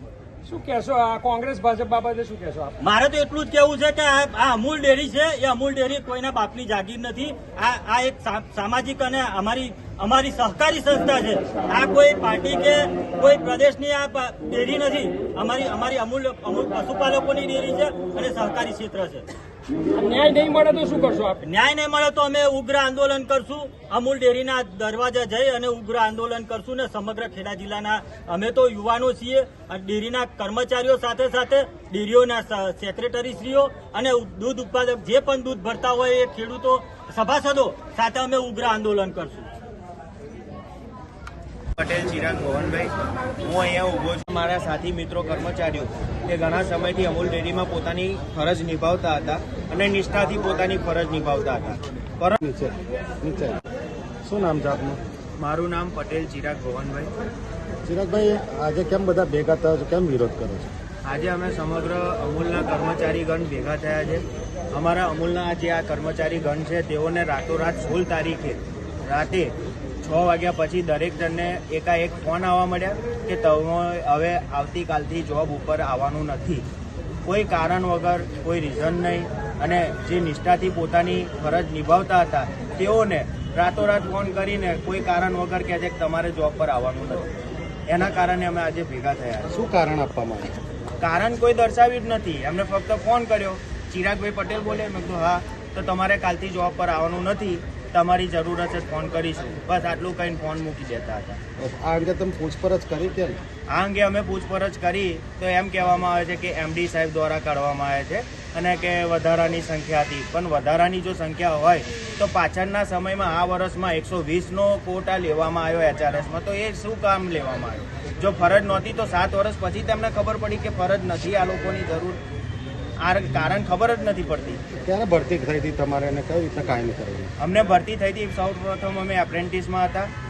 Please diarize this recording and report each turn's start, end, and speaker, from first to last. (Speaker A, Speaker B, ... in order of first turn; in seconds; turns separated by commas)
Speaker A: 0.5-2.8, Speaker B: 2.8-19.3, Speaker A: 19.9-21.4, Speaker B: 21.4-39.5, Speaker C: 41.8-52.4, Speaker D: 52.4-53.6, Speaker D: 54.2-55.0, Speaker C: 55.4-57.1, Speaker D: 57.8-60.7, Speaker C: 61.0-76.6, Speaker C: 77.2-87.3, Speaker C: 87.9-89.5, Speaker D: 89.5-90.5, Speaker C: 91.0-101.4, Speaker D: 101.6-103.4, Speaker C: 103.7-122.2, Speaker C: 123.0-124.6, Speaker D: 124.7-127.3, Speaker C: 127.4-130.1